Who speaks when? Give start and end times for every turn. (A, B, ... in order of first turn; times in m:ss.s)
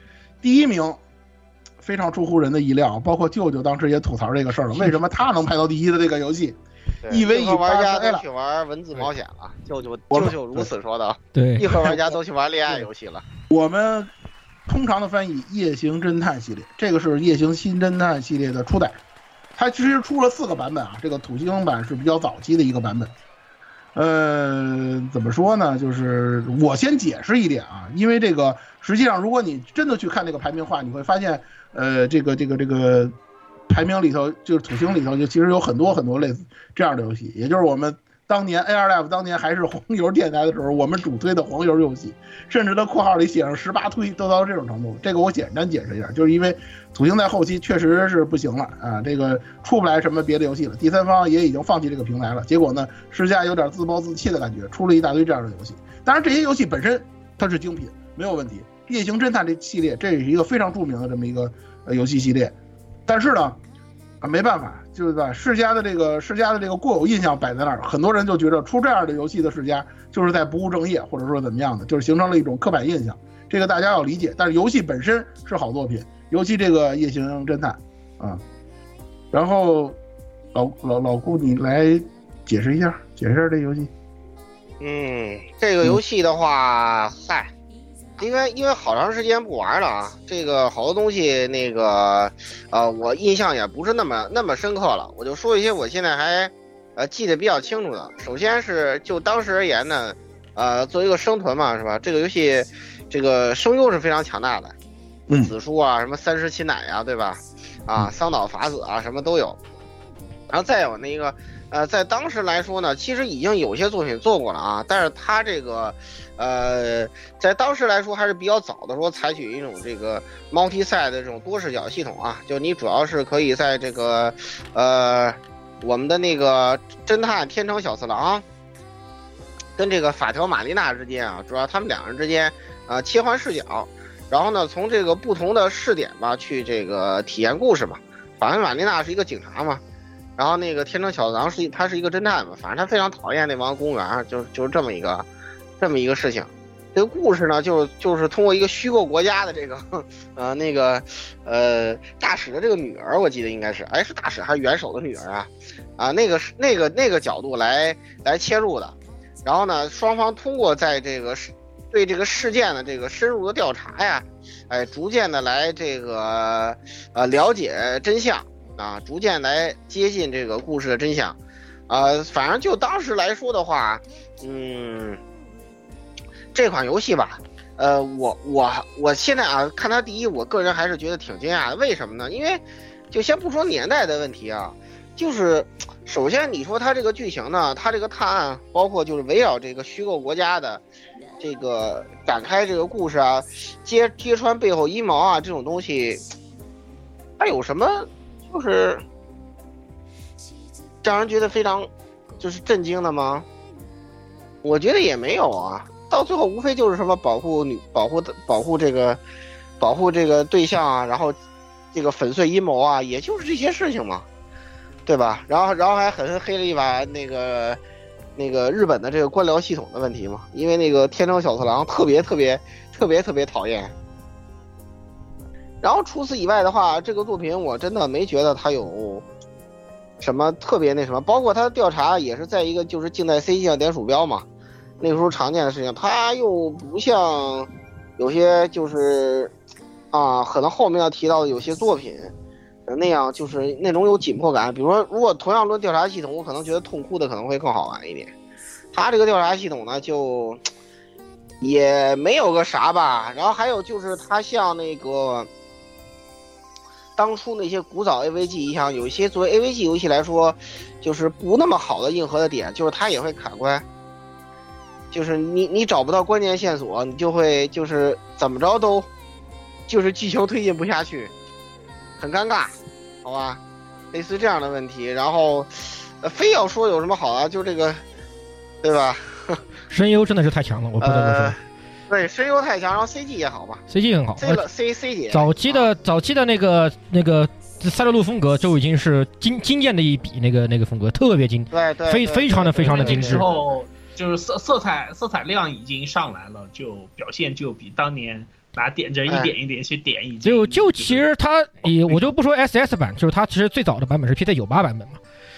0:00.4-0:01.0 A
0:01.8-0:08.2 A
0:07.0-0:13.2 B
0:10.1-0:10.7 A
0:11.3-0:11.7 C
0:13.5-0:14.1 A
0:14.7-0:19.0 A
0:19.6-0:23.1 A
0:23.9-0:33.1 A
0:33.7-1:02.5 A
1:03.1-1:03.6 A
1:04.2-1:18.4 A
1:19.3-1:20.0 A
1:20.5-1:23.9 A
1:24.8-1:27.5 B
1:28.2-1:44.7 B
1:45.3-1:45.5 A
1:45.4-1:49.6 B
1:50.5-2:08.4 B
2:09.8-2:19.8 B
2:20.4-2:25.2 B
2:25.8-2:51.4 B
2:51.9-2:55.2 B
2:56.5-3:10.8 B
3:11.4-3:16.2 B
3:17.4-3:19.0 B
3:21.0-3:21.9 B
3:22.4-3:23.4 B
3:24.6-3:29.2 B
3:29.8-3:31.4 B
3:31.9-3:34.2 B
3:35.0-3:37.8 B
3:38.4-3:43.9 B
3:45.8-3:49.2 B
3:50.2-3:54.4 B
3:55.0-3:59.5 B
4:00.1-4:02.3 B
4:02.9-4:08.3 B
4:08.9-4:10.6 B
4:11.6-4:15.5 B
4:17.2-4:23.8 B
4:25.1-4:29.1 B
4:29.9-4:31.3 B
4:32.2-4:33.6 B
4:34.1-4:38.0 B
4:38.8-4:39.6 B
4:39.9-4:41.6 C
4:41.0-4:41.6 B
4:42.1-4:43.8 B
4:43.9-4:44.6 C
4:44.4-4:45.9 B
4:45.3-4:53.5 C
4:51.7-4:53.7 B
4:52.9-5:01.2 D
4:59.3-4:59.5 B
5:00.4-5:05.2 C
5:02.1-5:02.3 D